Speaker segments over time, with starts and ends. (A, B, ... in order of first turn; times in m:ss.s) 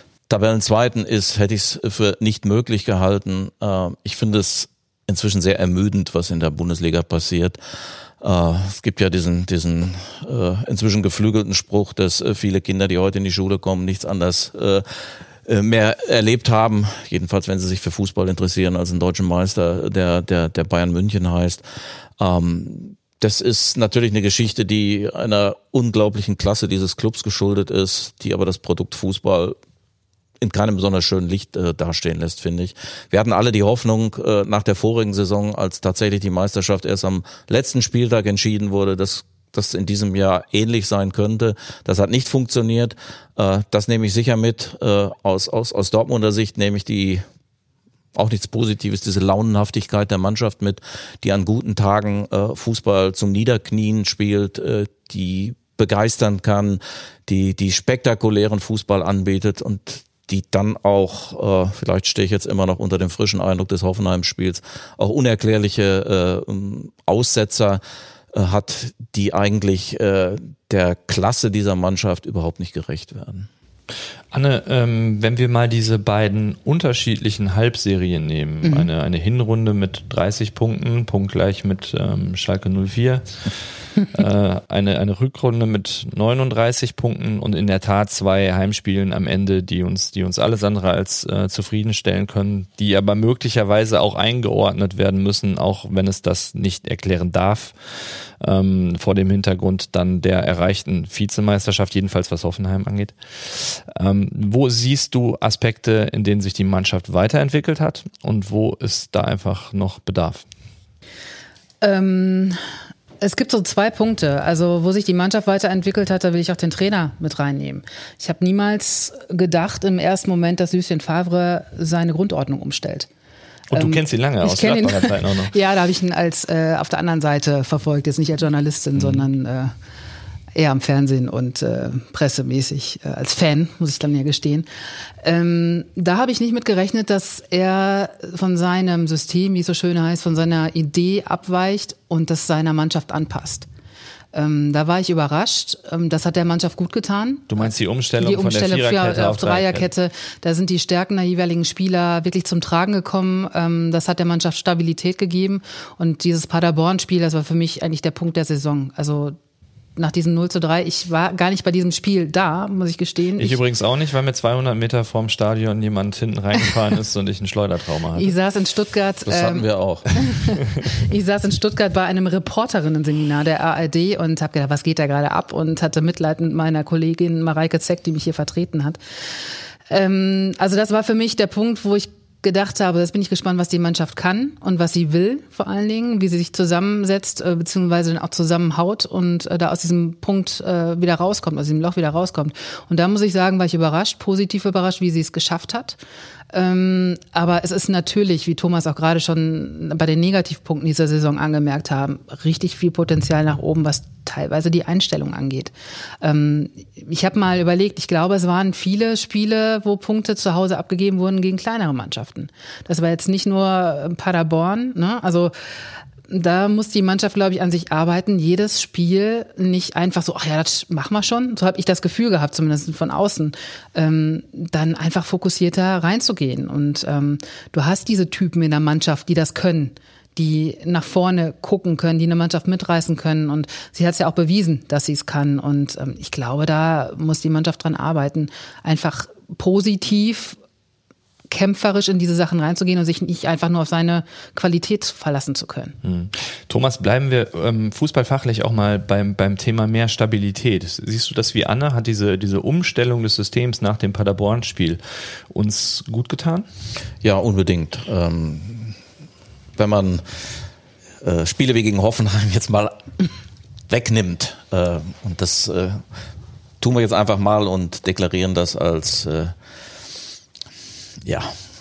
0:00.3-0:07.6 A
0:08.2-0:14.8 A
0:15.5-0:21.6 A
0:22.2-0:29.6 A
0:30.4-0:47.2 A
0:48.2-1:07.8 A
1:08.3-1:13.5 A
1:14.3-1:50.4 B
1:18.6-1:18.9 C
1:51.8-1:52.6 C
1:53.2-2:03.1 C
2:03.7-2:05.5 B
2:03.7-2:09.7 C
2:09.0-2:09.2 B
2:10.6-2:14.7 C
2:15.2-2:23.7 C
2:24.3-2:27.6 C
2:27.5-2:29.9 B
2:28.2-2:39.4 C
2:40.0-2:43.6 C
2:43.4-2:48.3 B
2:48.2-2:59.0 C
2:49.3-2:50.1 A
2:59.9-3:16.0 C
3:16.5-3:35.5 C
3:36.3-4:00.6 C
4:01.5-4:06.0 C
4:06.0-4:16.7 B
4:17.2-4:18.9 A
4:19.8-4:20.2 A
4:21.2-4:23.0 A
4:23.9-4:26.0 A
4:26.8-4:29.5 A
4:31.2-4:31.6 A